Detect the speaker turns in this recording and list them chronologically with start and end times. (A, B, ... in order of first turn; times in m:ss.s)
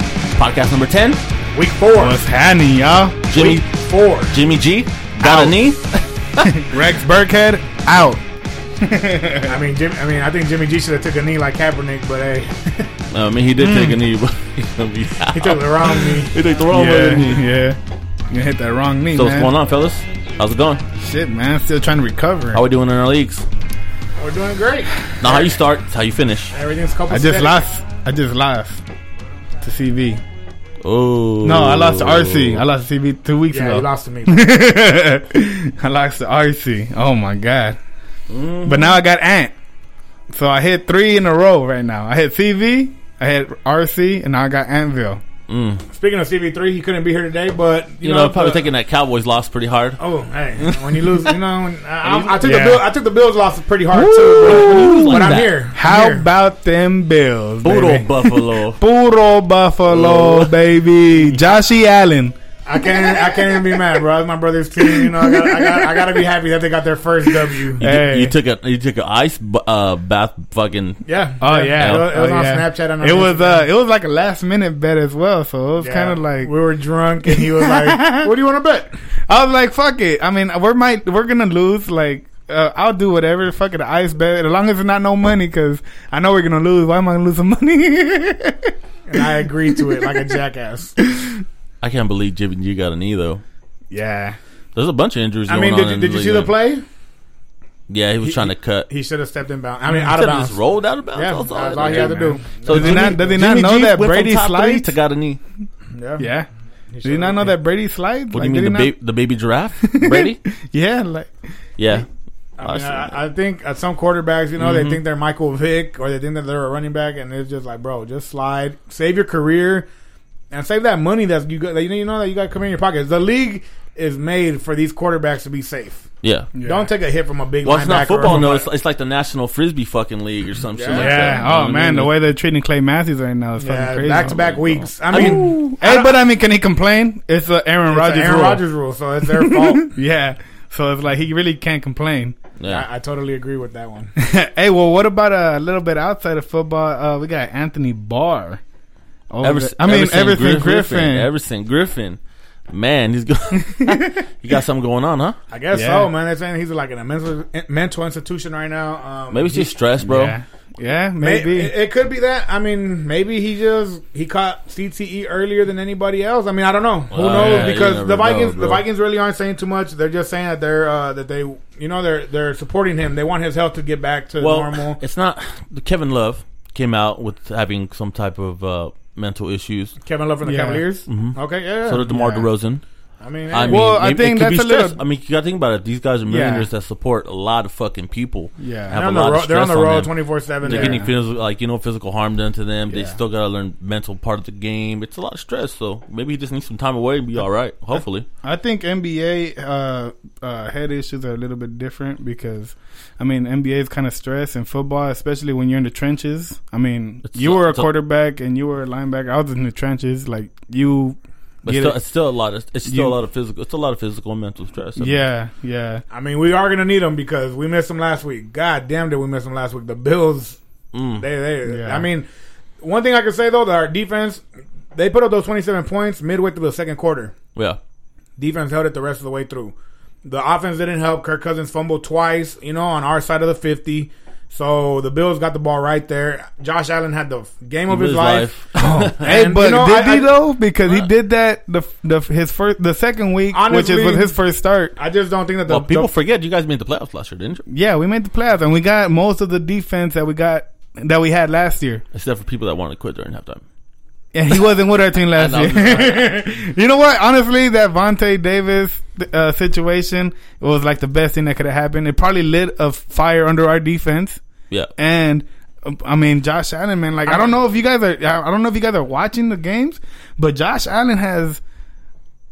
0:00.3-0:01.3 A
0:01.5-0:02.2 B
0:01.9-0:03.3 C
0:03.3-0:03.6 A
0:03.3-0:04.4 B
0:04.3-0:06.6 A
0:05.2-0:05.6 C
0:06.4-0:08.2 C
0:08.8-0:09.6 C
0:09.4-0:12.9 B
0:13.1-0:17.5 A
0:13.6-0:14.0 C
0:15.3-0:16.4 B
0:16.7-0:17.8 C
0:18.3-0:19.5 C
0:19.1-0:20.8 A
0:20.9-0:22.6 C
0:22.5-0:23.4 A
0:24.2-0:25.5 B
0:25.2-0:26.5 A
0:26.5-0:27.6 B
0:27.1-0:28.8 C
0:29.6-0:30.2 C
0:30.8-0:32.6 A
0:31.4-0:37.8 C
0:33.5-0:34.4 B
0:38.3-0:38.9 A
0:38.6-0:39.5 C
0:40.3-0:45.2 C
0:45.5-0:45.8 A
0:45.9-0:48.7 B
0:48.0-0:50.0 A
0:50.0-0:56.3 B
0:50.6-0:51.3 A
0:52.0-0:52.4 A
0:52.4-0:52.8 C
0:53.9-0:55.6 A
0:54.0-1:02.3 C
0:57.6-0:58.8 A
0:59.9-1:00.5 A
1:02.6-1:07.8 B
1:02.9-1:03.8 C
1:04.8-1:06.2 C
1:07.7-1:08.4 C
1:07.8-1:11.0 A
1:11.0-1:13.6 B
1:11.4-1:16.5 C
1:11.8-1:12.1 A
1:15.8-1:18.9 B
1:17.2-1:18.3 C
1:19.3-1:30.4 C
1:29.1-1:30.9 B
1:31.0-1:31.4 C
1:31.8-1:33.4 A
1:33.9-1:34.4 C
1:34.7-1:36.5 A
1:35.5-1:36.8 B
1:37.9-1:38.9 A
1:38.2-1:40.6 B
1:39.9-1:45.4 A
1:41.1-1:43.2 B
1:41.7-1:44.9 C
1:45.9-1:46.3 B
1:46.2-1:46.5 C
1:46.9-1:47.6 B
1:47.0-1:48.9 C
1:48.3-1:50.4 A
1:49.8-1:51.3 C
1:51.8-1:52.1 A
1:52.6-1:59.9 B
1:52.6-1:53.2 A
1:54.6-1:55.0 A
2:00.5-2:06.0 B
2:06.2-2:06.5 A
2:06.5-2:06.9 C
2:06.6-2:08.7 B
2:07.6-2:12.1 A
2:10.7-2:11.2 B
2:10.9-2:14.4 C
2:13.6-2:16.2 B
2:14.2-2:15.6 A
2:15.1-2:18.6 C
2:17.9-2:20.0 B
2:19.3-2:22.4 C
2:22.6-2:22.8 A
2:22.6-2:24.1 B
2:24.2-2:28.6 C
2:29.3-2:31.3 C
2:29.4-2:32.2 A
2:32.7-2:35.4 A
2:33.6-2:34.2 C
2:35.5-2:39.7 B
2:35.7-2:36.1 C
2:39.3-2:40.4 A
2:40.0-2:41.7 C
2:41.2-2:55.0 B
2:47.1-2:48.8 A
2:47.2-2:47.8 C
2:54.4-3:00.0 A
3:00.0-3:02.4 B
3:00.4-3:00.9 C
3:01.1-3:02.8 A
3:03.2-3:03.9 B
3:03.5-3:18.3 A
3:03.7-3:05.0 C
3:06.3-3:06.7 C
3:08.6-3:09.0 C
3:08.9-3:11.0 B
3:10.6-3:11.1 C
3:12.9-3:13.2 C
3:18.4-3:32.0 C
3:27.2-3:27.9 A
3:31.6-3:35.2 A
3:32.8-3:33.2 C
3:35.0-3:36.0 C
3:36.1-3:40.6 B
3:40.9-3:41.2 A
3:41.2-3:42.3 B
3:41.6-3:42.1 C
3:42.8-3:44.4 B
3:44.9-3:47.3 B
3:48.4-4:00.3 B
3:57.9-3:59.2 A
3:58.8-4:04.9 C
4:03.5-4:04.3 B
4:05.0-4:06.1 B
4:05.7-4:07.6 A
4:07.7-4:12.0 C
4:12.1-4:13.6 A
4:14.3-4:24.4 C
4:15.3-4:16.4 A
4:25.0-4:31.6 C